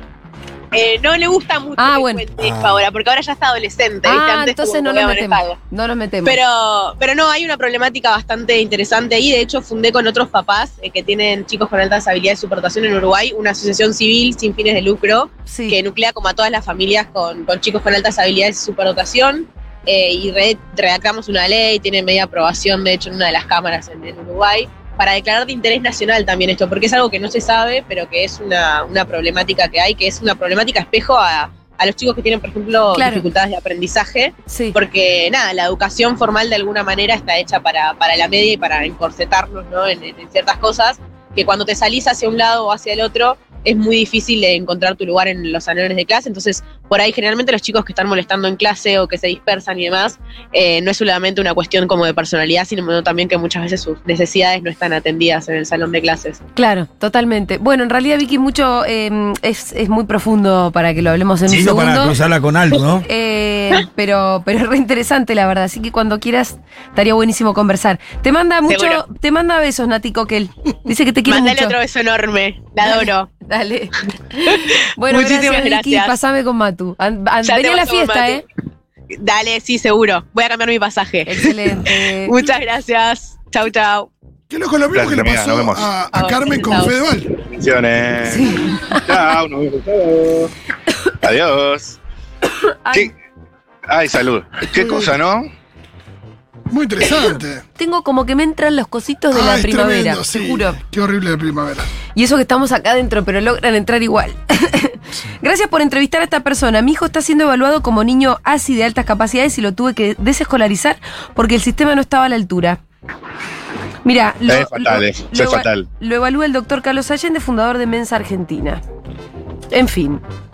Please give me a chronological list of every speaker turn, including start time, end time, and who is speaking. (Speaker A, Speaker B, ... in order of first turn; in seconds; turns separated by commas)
Speaker A: 0.7-5.6, Speaker B: 1.8-2.2, Speaker C: 2.4-2.7, Speaker B: 4.0-6.4, Speaker A: 6.2-56.4, Speaker B: 15.5-15.8, Speaker B: 32.9-33.2, Speaker B: 34.5-34.8, Speaker B: 56.5-62.1, Speaker C: 61.5-63.0, Speaker B: 63.0-71.8, Speaker A: 68.7-69.0, Speaker A: 71.3-73.3, Speaker B: 72.8-78.4, Speaker A: 74.5-76.2, Speaker A: 77.4-78.4, Speaker A: 79.1-81.5, Speaker B: 81.2-82.4, Speaker A: 82.2-84.1, Speaker D: 84.5-87.3, Speaker E: 84.9-85.9, Speaker A: 86.1-87.0, Speaker E: 87.4-90.5, Speaker B: 88.2-89.1, Speaker E: 91.2-92.0, Speaker B: 92.8-93.1, Speaker E: 93.9-95.5, Speaker D: 96.7-97.6, Speaker B: 97.8-100.8, Speaker D: 99.3-101.9, Speaker B: 102.1-112.8, Speaker B: 114.0-118.8, Speaker E: 114.5-115.9, Speaker B: 119.7-120.2